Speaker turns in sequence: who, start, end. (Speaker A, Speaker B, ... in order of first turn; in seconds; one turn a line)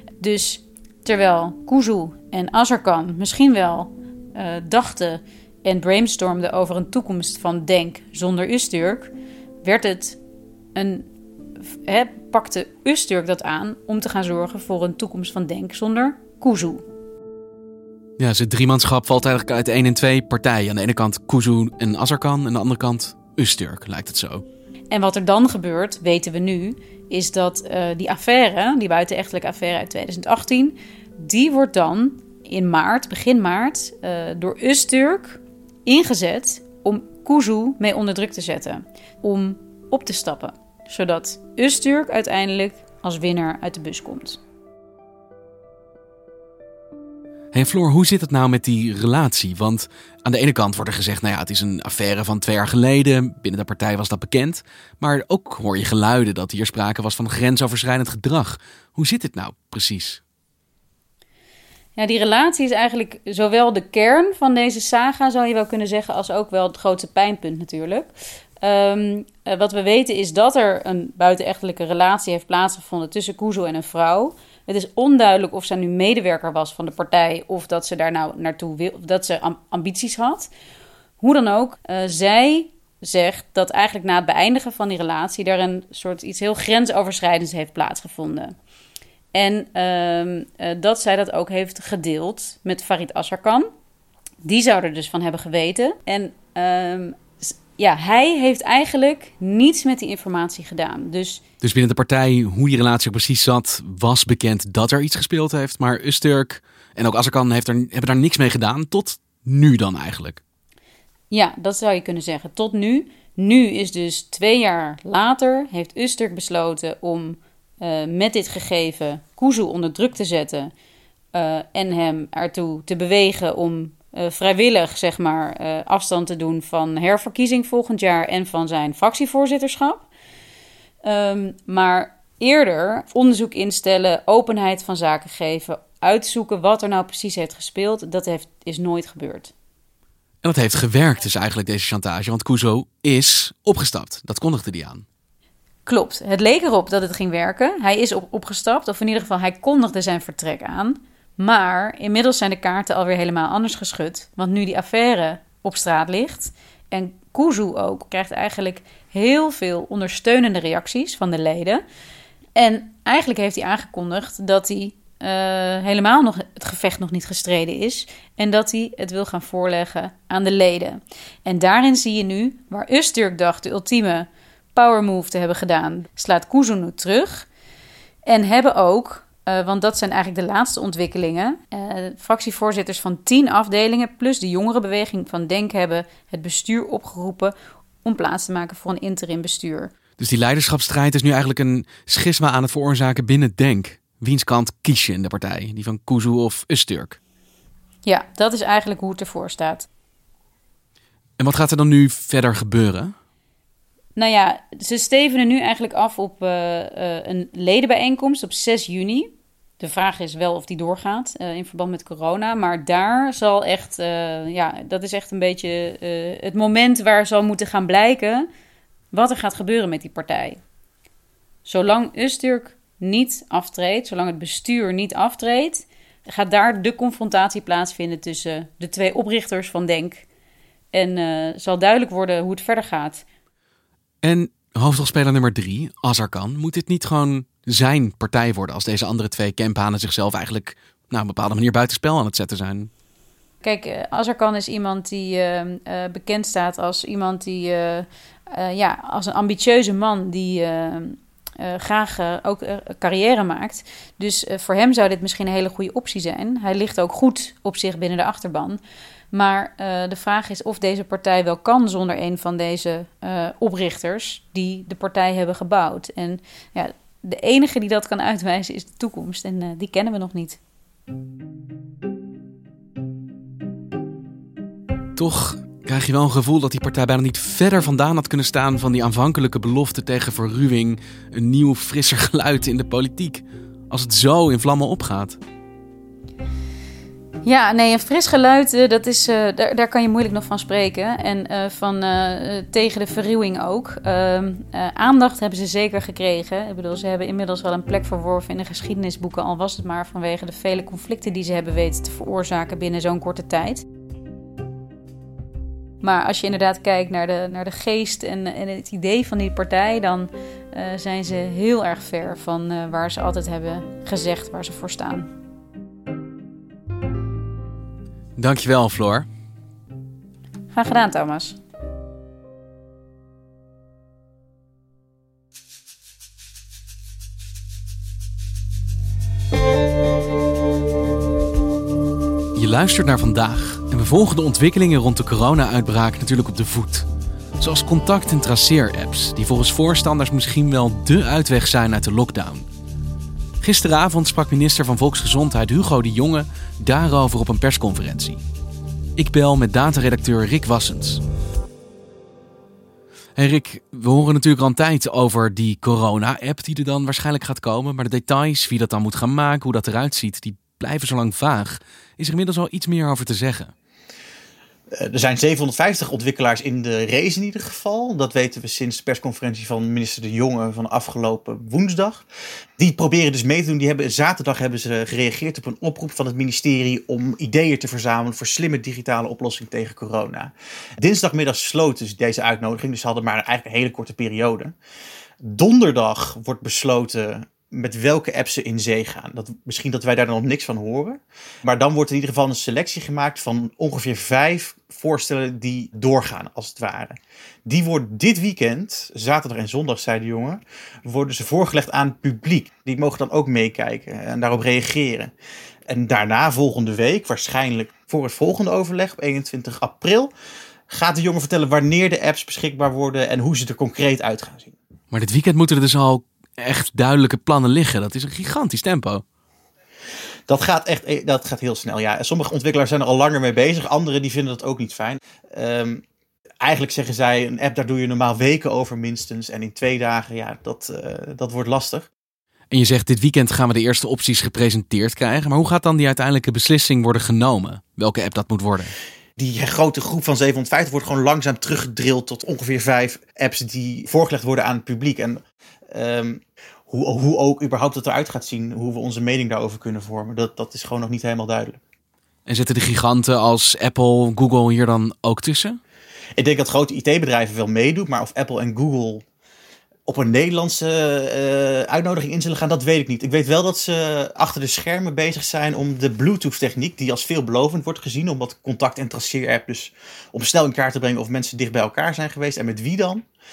Speaker A: 0.2-9.1
Speaker A: 9.6-10.2
Speaker A: 10.7-11.1
Speaker A: 11.6-16.8
Speaker B: 18.2-24.4
Speaker A: 24.9-44.4
Speaker B: 47.5-60.2
Speaker A: 62.0-68.1
Speaker A: 68.6-80.5
Speaker A: 81.2-88.5
Speaker A: 89.3-93.7
Speaker A: 94.4-101.4
Speaker B: 101.6-110.4
Speaker A: 111.3-120.7
Speaker A: 121.3-130.1
Speaker A: 131.0-139.5
Speaker B: 140.4-145.0
Speaker A: 145.8-161.8
Speaker A: 162.6-177.5
Speaker A: 178.2-189.9
Speaker B: 190.2-197.2
Speaker A: 198.1-199.9
Speaker B: 201.4-203.1
Speaker A: 204.2-218.5
Speaker A: 219.1-220.6
Speaker A: 221.6-230.2
Speaker A: 230.9-233.2
Speaker B: 234.2-242.9
Speaker A: 243.6-258.8
Speaker A: 259.3-270.6
Speaker B: 275.1-285.4
Speaker A: 287.4-303.8
Speaker A: 306.0-315.3
Speaker B: 318.4-319.3
Speaker A: 320.7-321.6
Speaker B: 332.6-337.1
Speaker B: 337.6-342.6
Speaker B: 343.6-348.4
Speaker B: 349.2-351.2
Speaker B: 353.4-363.7
Speaker C: 365.0-372.2
Speaker C: 372.8-384.7
Speaker C: 385.4-405.3
Speaker C: 405.9-410.3
Speaker C: 410.9-414.7
Speaker B: 415.1-419.2
Speaker C: 420.5-426.0
Speaker C: 426.6-432.1
Speaker B: 432.7-438.9
Speaker C: 439.4-445.4
Speaker C: 445.9-451.8
Speaker B: 452.4-455.8
Speaker C: 456.4-459.2
Speaker C: 460.1-473.2